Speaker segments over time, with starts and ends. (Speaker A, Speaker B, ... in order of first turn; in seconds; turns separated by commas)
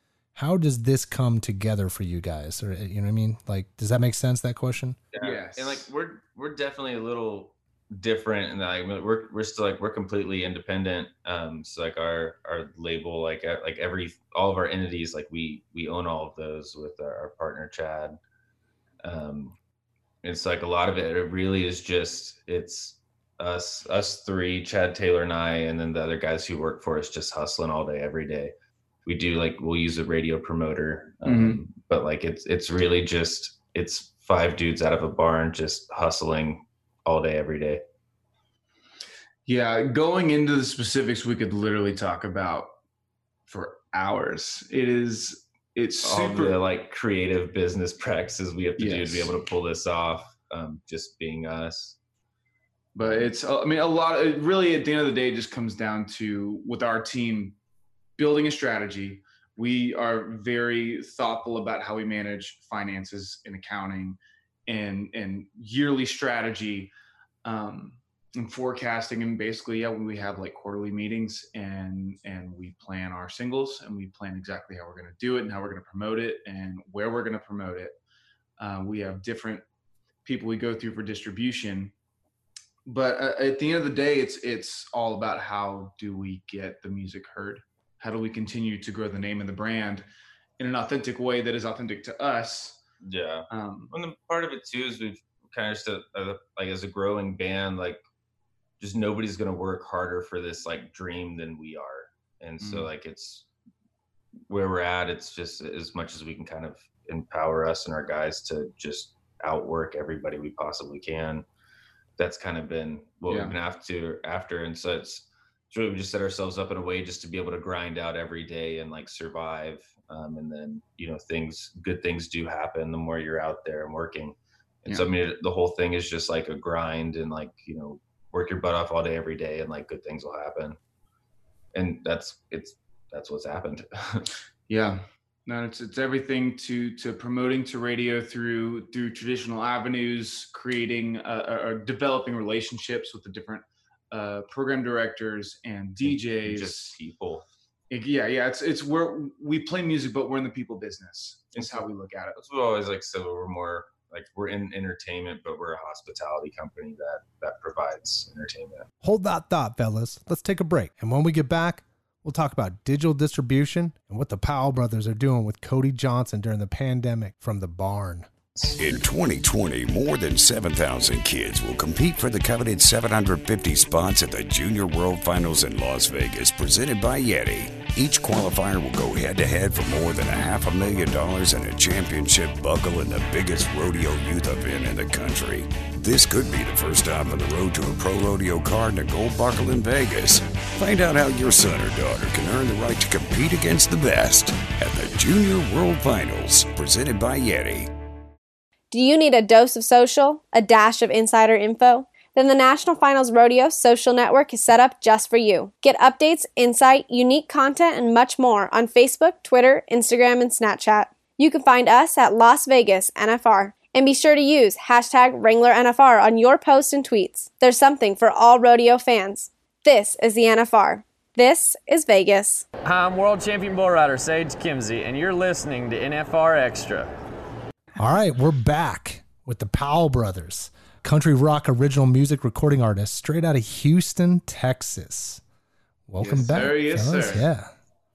Speaker A: 0.3-5.0, Speaker B: 5.1-18.2, Speaker C: 5.2-5.9, Speaker B: 19.0-19.6, Speaker B: 20.2-28.5, Speaker B: 29.1-37.8, Speaker C: 31.2-31.6, Speaker C: 39.5-42.7, Speaker C: 43.5-46.6, Speaker B: 46.0-52.0, Speaker C: 48.8-49.3, Speaker C: 52.9-57.5, Speaker B: 53.0-53.3, Speaker C: 58.2-66.9, Speaker C: 67.4-78.0, Speaker C: 78.6-79.6, Speaker C: 80.2-81.9, Speaker C: 82.8-90.0, Speaker C: 90.6-92.8, Speaker B: 93.0-98.0, Speaker C: 93.5-93.9, Speaker B: 98.8-103.5, Speaker C: 102.6-102.9, Speaker B: 104.5-111.4, Speaker B: 112.2-130.8, Speaker C: 113.3-113.5, Speaker B: 131.7-134.3, Speaker C: 134.7-146.9, Speaker B: 146.0-147.4, Speaker C: 147.9-152.3, Speaker B: 151.5-158.8, Speaker A: 159.0-168.3, Speaker D: 168.8-197.9, Speaker E: 198.9-222.7, Speaker F: 222.8-226.9, Speaker A: 228.0-235.4, Speaker A: 236.1-237.7, Speaker C: 236.2-237.5